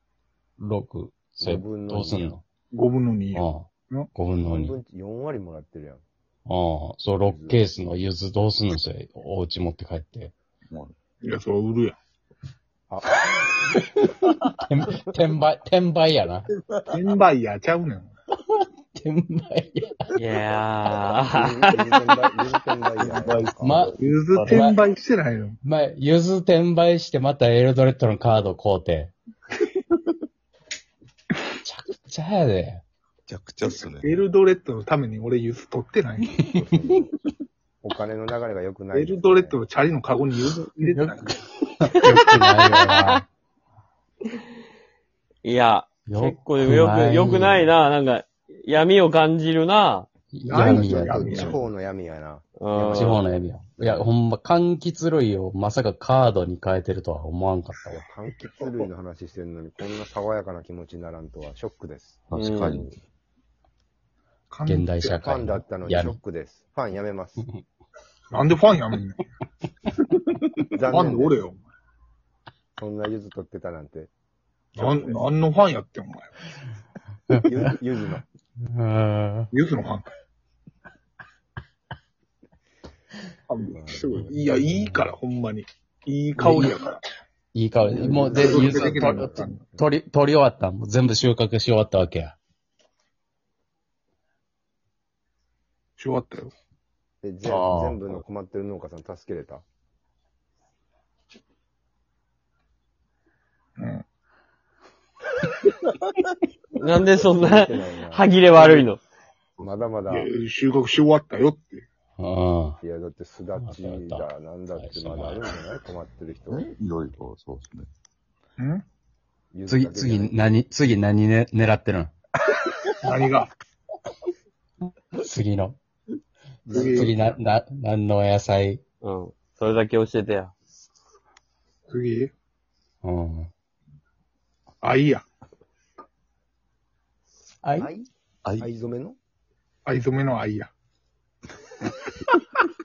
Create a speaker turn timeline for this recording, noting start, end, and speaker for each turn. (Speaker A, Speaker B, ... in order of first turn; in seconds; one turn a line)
Speaker A: 0.6-2.4
Speaker B: 1.4-2.4
Speaker C: 2.7-4.1
Speaker A: 3.3-4.8
Speaker B: 4.4-6.0
Speaker A: 6.5-10.3
Speaker B: 7.2-7.6
Speaker C: 11.2-12.0
Speaker B: 12.9-13.2
Speaker A: 14.6-16.4
Speaker D: 16.5-17.0
Speaker C: 16.9-18.1
Speaker A: 18.9-20.1
Speaker E: 20.1-21.7
Speaker B: 21.3-23.8
Speaker D: 23.0-24.7
Speaker A: 23.6-24.8
Speaker C: 24.0-25.6
Speaker A: 25.6-29.1
Speaker A: 31.6-32.8
Speaker D: 33.3-34.2
Speaker C: 33.6-36.4
Speaker B: 36.4-37.1
Speaker B: 37.8-39.6
Speaker C: 38.9-41.3
Speaker A: 40.9-43.2
Speaker E: 42.1-43.1
Speaker E: 45.4-50.1
Speaker A: 46.1-47.7
Speaker A: 50.3-51.6
Speaker C: 50.5-51.6
Speaker B: 50.5-54.0
Speaker E: 52.6-53.2
Speaker A: 52.8-58.0
Speaker B: 57.9-62.2
Speaker D: 62.3-62.9
Speaker E: 62.4-62.9
Speaker C: 64.5-65.2
Speaker A: 64.7-66.2
Speaker B: 65.1-67.5
Speaker C: 68.3-69.2
Speaker B: 70.7-71.4
Speaker C: 70.9-71.6
Speaker B: 72.8-74.1
Speaker C: 74.8-76.3
Speaker B: 74.8-75.3
Speaker A: 77.3-77.8
Speaker B: 77.4-78.2
Speaker A: 78.6-79.5
Speaker C: 79.5-80.1
Speaker C: 83.5-87.0
Speaker B: 83.7-84.9
Speaker A: 86.4-86.8
Speaker A: 87.5-92.4
Speaker B: 87.8-89.9
Speaker C: 88.3-89.6
Speaker C: 96.0-96.5
Speaker B: 97.2-99.6
Speaker A: 97.4-98.2
Speaker C: 103.8-104.0
Speaker E: 106.8-109.0
Speaker B: 107.4-108.4
Speaker C: 108.5-108.9
Speaker B: 109.6-110.3
Speaker C: 110.1-111.8
Speaker A: 112.2-112.8
Speaker B: 112.8-116.7
Speaker A: 113.6-115.4
Speaker D: 116.5-117.9
Speaker C: 118.6-118.8
Speaker B: 119.5-120.5
Speaker A: 119.7-122.1
Speaker C: 123.0-123.5
Speaker A: 125.1-125.8
Speaker B: 126.7-127.4
Speaker C: 126.7-127.1
Speaker A: 126.7-128.8
Speaker E: 129.0-130.5
Speaker C: 131.9-132.3
Speaker A: 133.0-133.5
Speaker C: 134.8-135.2
Speaker A: 137.6-137.9
Speaker B: 137.8-138.1
Speaker B: 138.6-139.2
Speaker C: 139.9-140.7